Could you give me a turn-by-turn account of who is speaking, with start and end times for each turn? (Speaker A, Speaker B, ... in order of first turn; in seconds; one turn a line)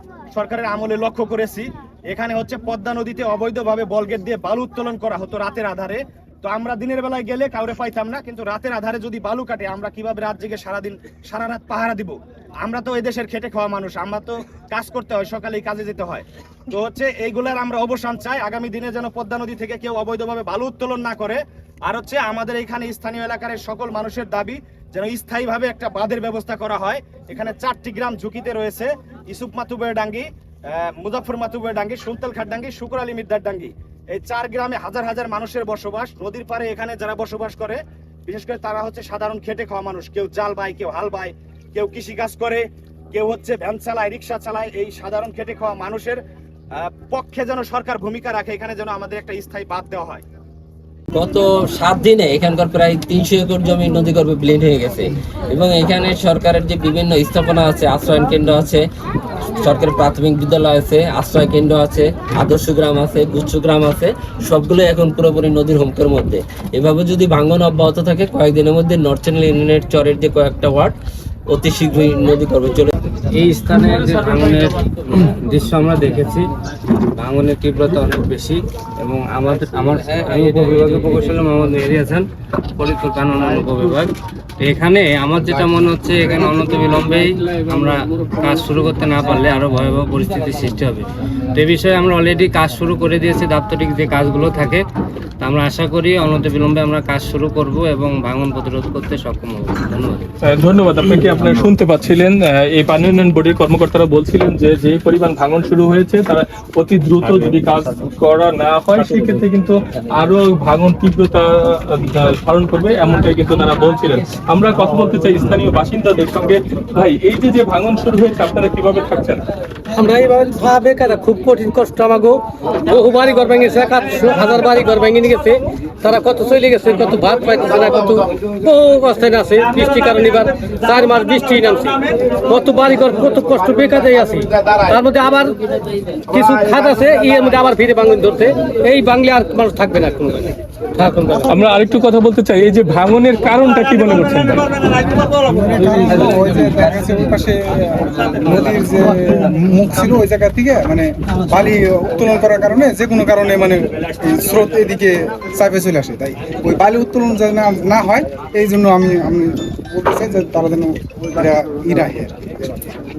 Speaker A: 0.3-46.2
Speaker A: 46.8-50.2
Speaker B: 51.1-58.8
Speaker B: 59.6-71.0
Speaker B: 71.5-72.9
Speaker C: 73.3-76.5
Speaker C: 77.2-94.8
Speaker C: 95.4-100.3
Speaker D: 100.4-119.5
Speaker E: 119.9-135.6
Speaker E: 136.2-141.5
Speaker D: 141.5-144.8
Speaker F: 145.2-162.9